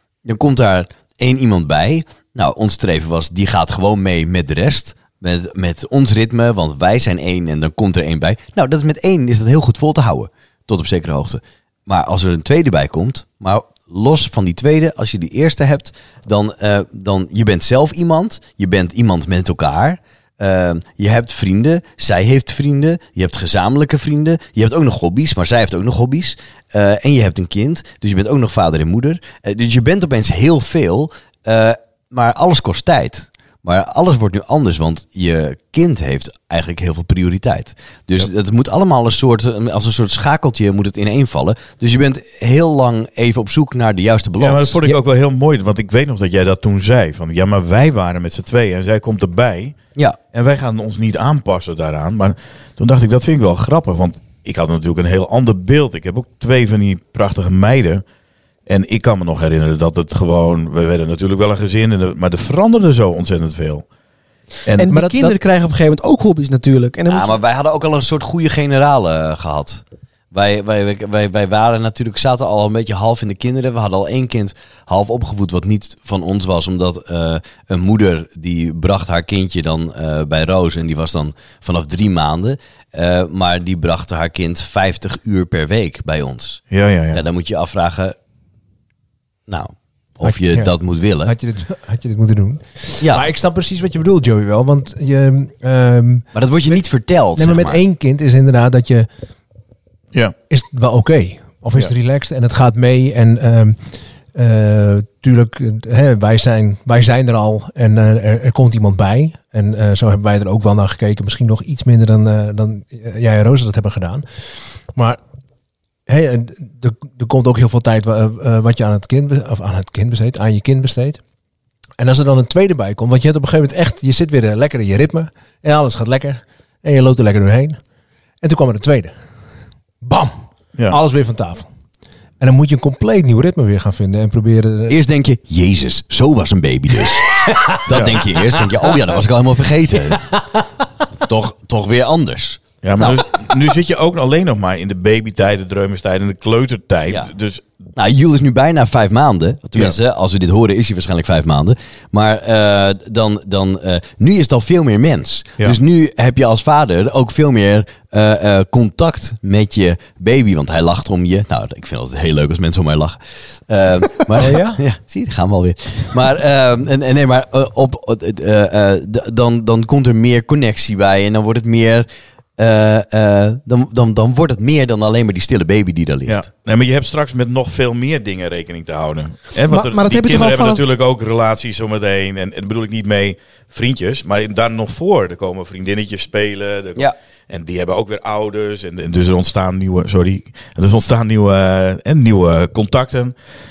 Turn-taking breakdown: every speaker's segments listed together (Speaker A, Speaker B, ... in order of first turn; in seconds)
Speaker A: 0.2-44.8, 67.1-88.2, 89.5-91.3, 93.0-93.3, 96.3-97.8, 134.9-137.3, 137.8-140.3, 141.2-143.2, 147.9-176.4
Speaker B: 44.4-49.8, 50.3-58.0, 58.7-63.8, 64.7-65.4, 86.7-87.2, 137.9-138.2, 142.8-147.6, 176.2-193.3
Speaker C: 64.8-67.4, 179.7-180.8
Speaker D: 90.2-96.8, 97.3-99.1, 100.5-103.8, 104.3-114.2, 114.9-115.2, 116.1-121.2, 122.0-127.8, 128.4-129.1, 130.0-131.7, 132.4-135.0, 137.3-137.8, 140.2-140.6, 164.3-164.8